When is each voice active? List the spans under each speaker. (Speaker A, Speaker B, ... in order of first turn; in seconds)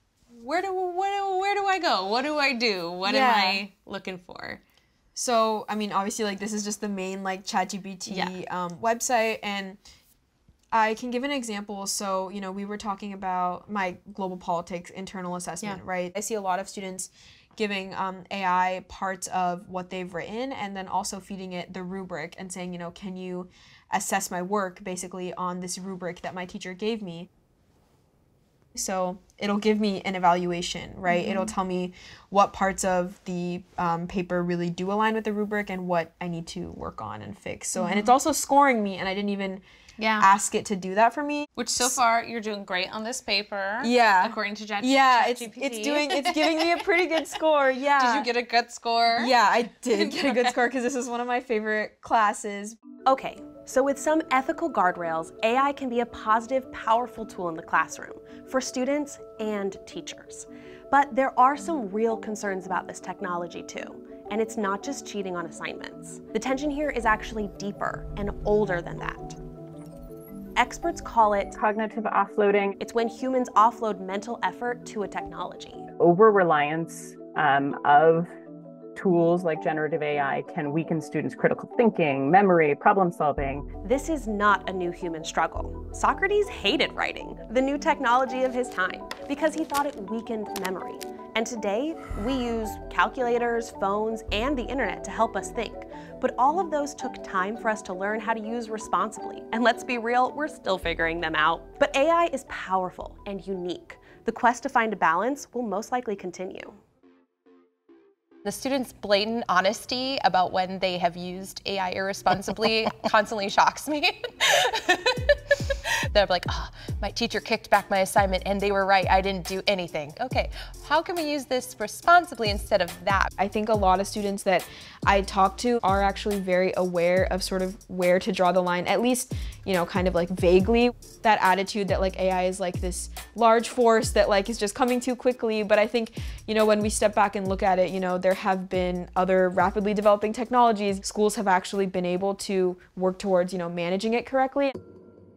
Speaker A: 0.3-4.6, 8.1-8.4, 31.1-31.5, 37.8-38.1, 40.0-40.3, 41.6-46.6, 47.9-49.3, 49.9-50.5
Speaker B: 3.0-3.6, 5.1-9.8, 10.7-27.3, 28.7-39.6, 40.2-42.0, 43.8-48.3, 49.1-52.8, 123.4-144.7
Speaker C: 53.0-69.4, 70.6-71.6, 72.8-75.9, 83.8-106.8
Speaker D: 71.5-72.7, 76.0-78.3, 79.0-83.7
Speaker E: 108.4-123.3